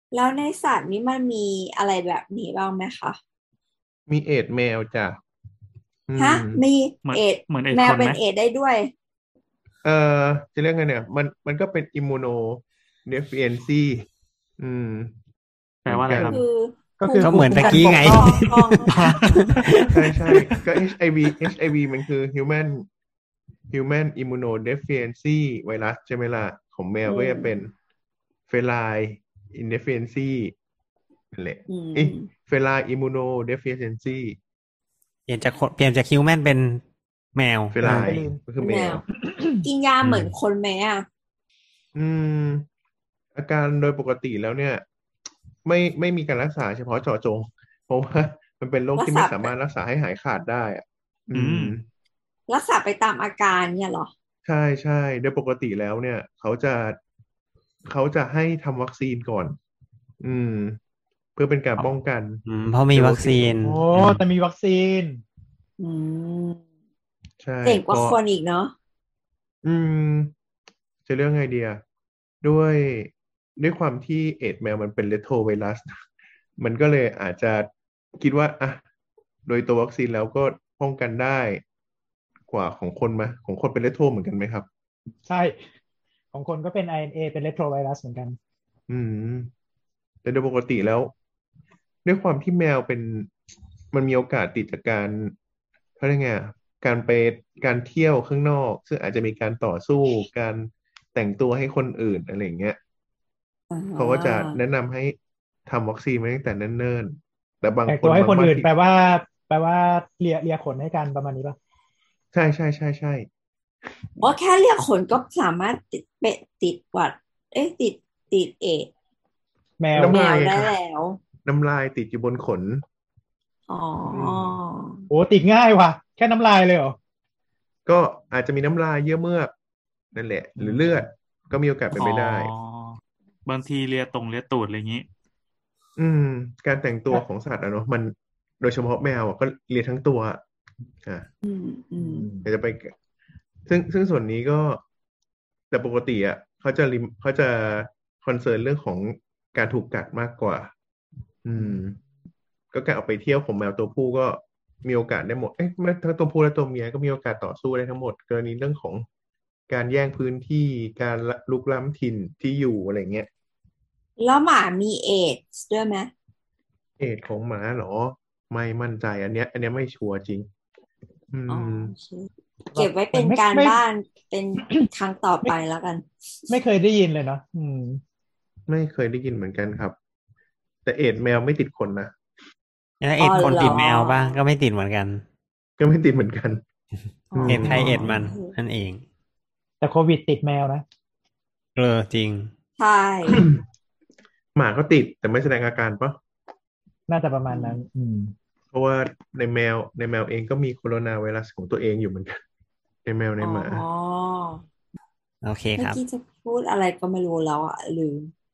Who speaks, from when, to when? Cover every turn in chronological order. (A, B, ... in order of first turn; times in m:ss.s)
0:00.1-0:03.2 A
0:04.1-0:05.1 B
0:06.1-0:06.6 B
0:06.2-0:08.9 A
0:07.0-0:08.2 C
0:09.8-0:14.0 B
0:14.6-0:15.1 B
0:15.8-0:16.4 B
0:15.8-0:16.4 C
0:16.1-0:19.8 A
0:17.0-0:18.4 D
0:17.2-0:18.8 E
0:18.9-0:19.5 C
0:19.9-0:22.8 B
0:23.7-0:27.7 B
0:27.0-0:27.5 A
0:28.5-0:30.5 B
0:31.3-0:34.4 B
0:31.7-0:32.3 A
0:35.3-0:36.8 E
0:37.3-0:38.2 E
0:37.7-0:39.0 B
0:37.8-0:38.4 D
0:38.6-0:39.0 A
0:39.2-0:39.6 D
0:39.6-0:41.0 A
0:40.0-0:40.3 E
0:41.9-0:42.6 B
0:43.3-0:44.8 B
0:45.6-0:51.8 B
0:48.9-0:49.5 A
0:51.3-0:51.8 C
0:52.5-0:54.1 A
0:54.4-0:57.0 B
0:57.8-0:59.6 B
1:00.2-1:00.8 B
1:01.4-1:02.4 B
1:02.4-1:04.2 E
1:02.9-1:03.6 B
1:03.6-1:05.2 D
1:05.8-1:06.6 A
1:07.4-1:08.2 B
1:07.6-1:08.7 A
1:09.6-1:10.3 B
1:11.0-1:11.8 B
1:12.4-1:16.0 B
1:16.6-1:17.7 B
1:18.2-1:18.8 B
1:19.4-1:21.6 B
1:22.5-1:24.7 B
1:25.2-1:25.6 D
1:26.3-1:28.4 D
1:28.9-1:29.5 B
1:30.2-1:31.1 B
1:32.0-1:33.3 B
1:33.9-1:35.3 B
1:36.0-1:42.8 B
1:43.7-1:44.6 A
1:44.0-1:45.2 B
1:45.7-1:48.7 B
1:47.8-1:51.6 D
1:52.3-1:53.3 B
1:54.2-1:58.9 A
1:59.8-2:00.2 D
1:59.9-2:00.7 B
2:00.1-2:01.2 A
2:01.4-2:02.8 B
2:03.7-2:05.0 A
2:04.1-2:04.6 B
2:05.1-2:07.0 D
2:07.8-2:09.5 B
2:10.1-2:12.5 B
2:10.6-2:10.9 D
2:11.9-2:15.0 C
2:16.0-2:20.4 B
2:21.4-2:22.3 A
2:22.0-2:22.5 D
2:22.4-2:22.9 B
2:23.6-2:24.8 B
2:25.7-2:30.7 B
2:31.4-2:32.0 B
2:31.6-2:31.8 D
2:32.7-2:39.0 B
2:39.7-2:43.3 B
2:44.2-2:46.1 A
2:47.0-2:50.5 B
2:51.3-2:51.9 B
2:51.5-2:56.5 A
2:52.7-2:53.8 D
2:56.5-2:58.0 D
2:58.7-2:59.9 B
3:00.8-3:02.1 B
3:03.0-3:05.2 E
3:03.2-3:04.4 A
3:05.8-3:06.6 B
3:07.3-3:08.5 A
3:07.4-3:08.1 B
3:07.4-3:08.1 D
3:07.4-3:09.0 E
3:09.8-3:10.8 D
3:11.8-3:12.5 E
3:12.8-3:13.4 A
3:13.3-3:13.6 B
3:14.5-3:16.2 B
3:17.1-3:18.3 D
3:17.5-3:17.8 A
3:18.7-3:22.4 B
3:23.0-3:23.8 B
3:23.4-3:24.6 A
3:25.4-3:26.0 E
3:25.8-3:28.3 A